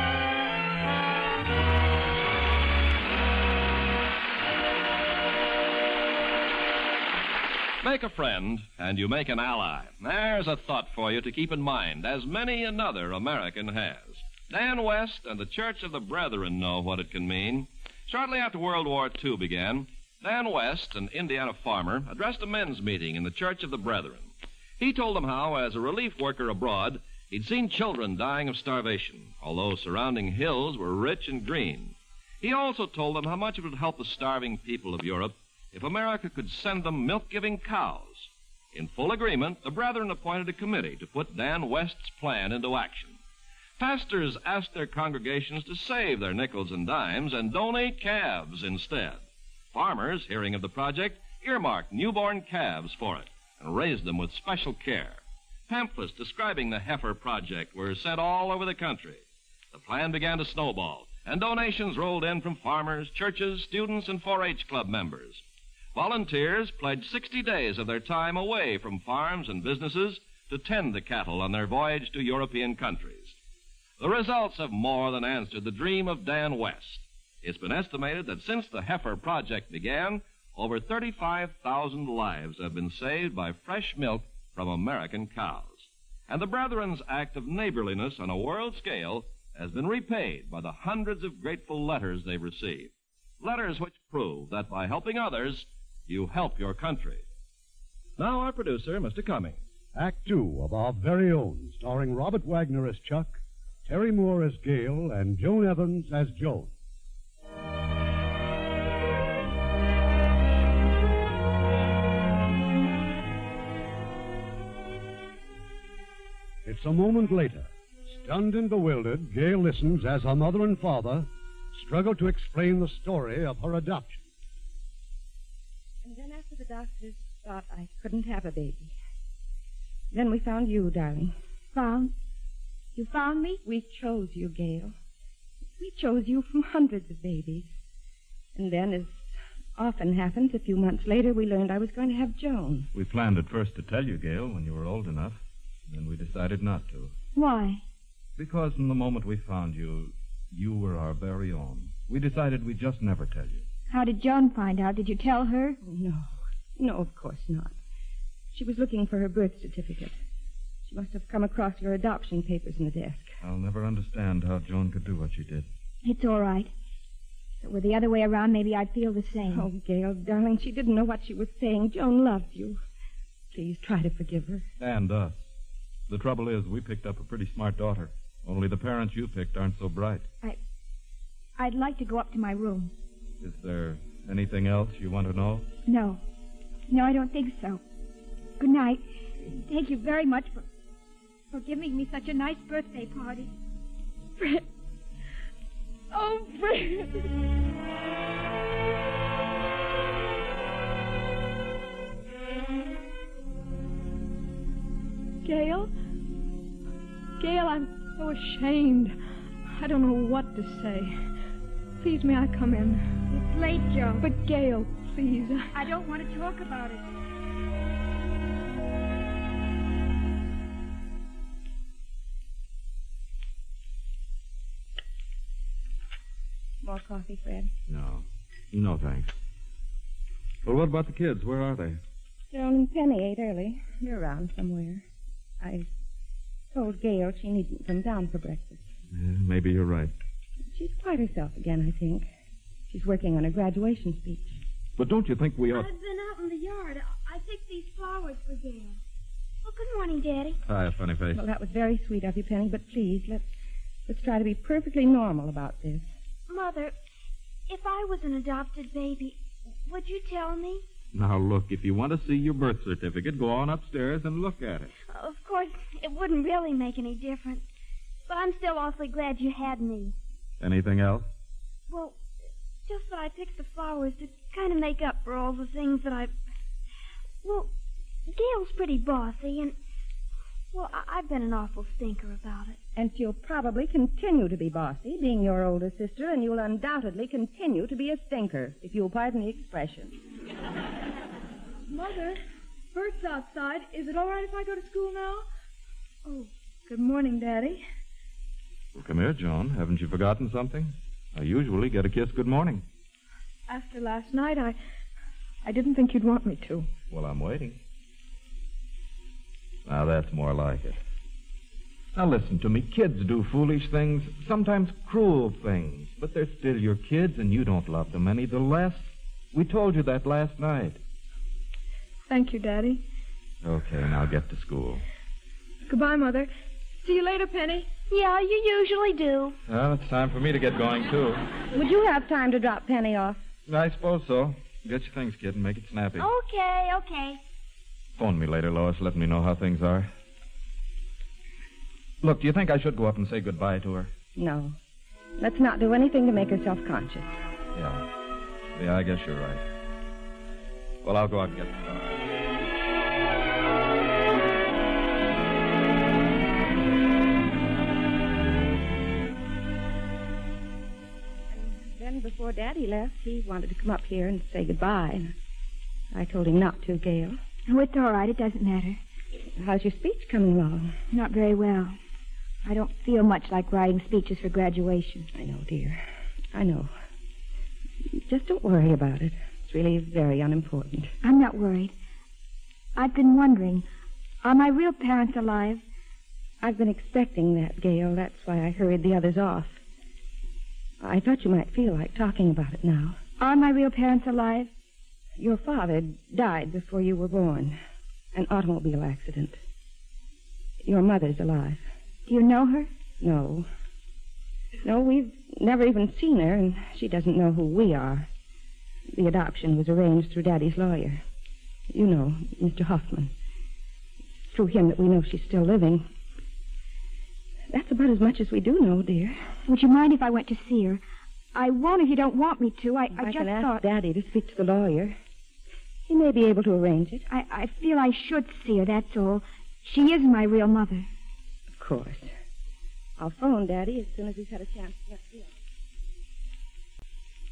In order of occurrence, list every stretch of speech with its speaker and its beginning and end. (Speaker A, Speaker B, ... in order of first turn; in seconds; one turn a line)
Speaker A: 7.8-43.2
Speaker A: 43.8-65.4
Speaker A: 66.0-73.4
Speaker A: 74.0-97.2
Speaker A: 98.2-99.6
Speaker B: 99.9-106.7
Speaker B: 116.7-124.2
Speaker C: 126.0-128.9
Speaker C: 130.1-131.3
Speaker D: 131.7-132.1
Speaker D: 133.0-133.6
Speaker C: 133.6-134.9
Speaker C: 135.8-137.7
Speaker C: 138.6-142.9
Speaker E: 142.9-145.4
Speaker E: 145.9-147.1
Speaker D: 147.3-147.8
Speaker E: 148.4-153.6
Speaker D: 153.9-155.8
Speaker C: 155.8-157.7
Speaker C: 158.5-160.2
Speaker C: 160.9-163.3
Speaker E: 163.4-165.7
Speaker D: 166.0-166.7
Speaker D: 167.6-169.7
Speaker C: 169.5-172.8
Speaker C: 173.5-174.7
Speaker E: 174.8-175.5
Speaker E: 176.1-180.3
Speaker D: 181.6-182.9
Speaker E: 183.4-185.7
Speaker D: 185.9-186.2
Speaker D: 186.9-187.8
Speaker D: 188.6-190.7
Speaker D: 191.5-193.5
Speaker F: 196.1-197.1
Speaker F: 205.4-205.9
Speaker F: 207.4-209.2
Speaker F: 209.7-211.1
Speaker F: 212.0-213.0
Speaker D: 213.3-214.3
Speaker F: 214.2-215.7
Speaker D: 215.7-217.1
Speaker C: 226.8-227.7
Speaker E: 227.9-229.3
Speaker E: 230.7-232.0
Speaker C: 232.5-235.0
Speaker C: 235.6-235.9
Speaker C: 236.7-238.9
Speaker E: 239.1-240.1
Speaker C: 240.7-242.2
Speaker C: 242.9-244.6
Speaker E: 245.0-245.9
Speaker G: 245.7-249.0
Speaker G: 249.6-250.6
Speaker E: 250.7-251.4
Speaker C: 251.3-253.5
Speaker C: 254.1-256.1
Speaker G: 256.5-256.9
Speaker G: 257.7-260.8
Speaker E: 261.1-264.9
Speaker G: 265.1-267.6
Speaker G: 268.3-270.1
Speaker E: 270.6-271.3
Speaker G: 271.9-272.2
Speaker G: 272.9-276.3
Speaker G: 277.4-277.7
Speaker G: 278.3-279.8
Speaker G: 280.7-282.8
Speaker C: 283.0-290.1
Speaker F: 291.9-292.4
Speaker F: 292.9-295.5
Speaker F: 296.2-297.8
Speaker E: 298.9-302.8
Speaker F: 303.7-304.8
Speaker F: 305.6-306.9
Speaker E: 307.1-307.8
Speaker E: 309.9-311.0
Speaker E: 312.1-321.0
Speaker F: 322.3-323.0
Speaker E: 323.6-325.0
Speaker F: 325.9-326.5
Speaker F: 327.0-327.9
Speaker G: 328.1-329.6
Speaker E: 329.7-331.5
Speaker C: 331.7-333.4
Speaker E: 333.7-336.3
Speaker G: 336.2-337.4
Speaker E: 338.2-340.1
Speaker E: 342.2-344.1
Speaker C: 344.4-344.8
Speaker C: 345.4-347.4
Speaker E: 347.8-348.1
Speaker E: 348.7-349.6
Speaker E: 351.0-352.2
Speaker C: 361.5-365.3
Speaker C: 366.1-367.4
Speaker D: 367.7-369.0
Speaker C: 369.6-370.9
Speaker D: 371.1-372.0
Speaker D: 372.6-375.3
Speaker C: 375.3-376.9
Speaker C: 378.1-381.1
Speaker D: 381.2-381.9
Speaker D: 383.0-383.9
Speaker D: 384.4-385.8
Speaker C: 386.6-389.8
Speaker C: 391.0-393.2
Speaker D: 393.4-394.7
Speaker C: 395.4-397.8
Speaker C: 398.3-399.6
Speaker C: 400.8-401.8
Speaker D: 402.3-402.9
Speaker C: 403.2-403.7
Speaker C: 404.8-408.3
Speaker C: 409.1-411.2
Speaker C: 411.9-413.3
Speaker C: 414.5-416.1
Speaker C: 417.7-419.4
Speaker D: 419.7-421.0
Speaker D: 421.6-423.8
Speaker C: 423.2-425.2
Speaker C: 426.1-427.2
Speaker D: 427.3-431.1
Speaker C: 431.8-432.3
Speaker C: 433.2-435.5